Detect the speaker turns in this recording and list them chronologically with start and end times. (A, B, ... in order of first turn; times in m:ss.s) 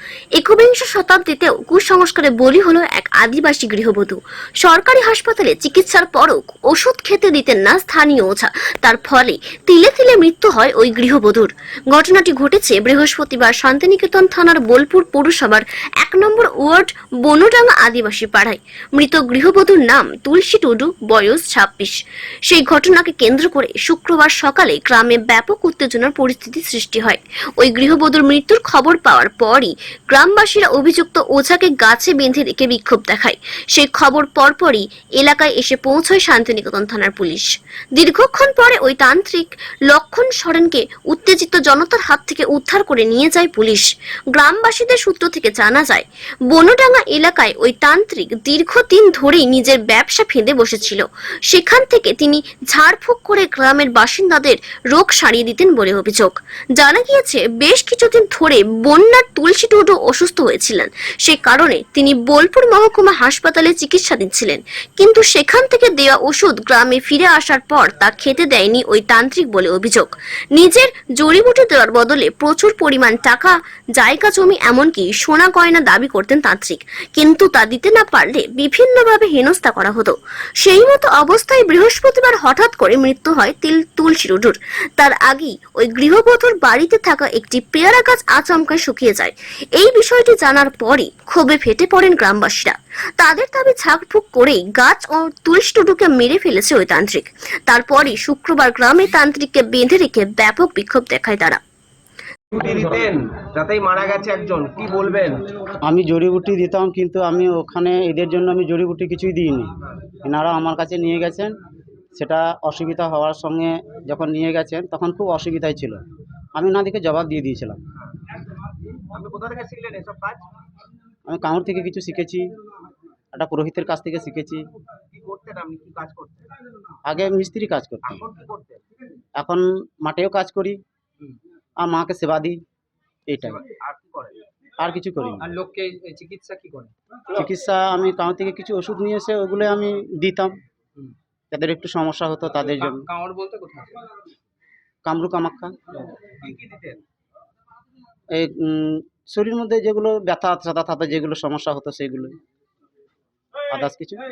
0:00.4-1:41.6 A
1:42.6-1:45.4 B
1:45.8-1:49.7 C
1:50.2-1:51.5 C
1:52.2-1:56.0 C
1:56.6-1:57.8 C
1:59.1-2:00.4 B
2:01.3-2:02.5 C
2:03.3-2:04.6 C
2:05.1-2:06.4 B
2:07.1-2:08.2 C
2:08.1-2:08.8 B
2:09.4-2:10.8 C
2:11.8-2:12.6 C
2:13.3-2:13.6 C
2:13.6-2:14.4 B
2:14.8-2:15.5 C
2:15.4-2:16.9 D
2:17.3-2:20.6 C
2:21.5-2:23.1 C
2:22.8-2:24.1 D
2:25.0-2:25.7 C
2:26.6-2:26.9 B
2:28.3-2:32.4 C
2:33.7-2:34.2 C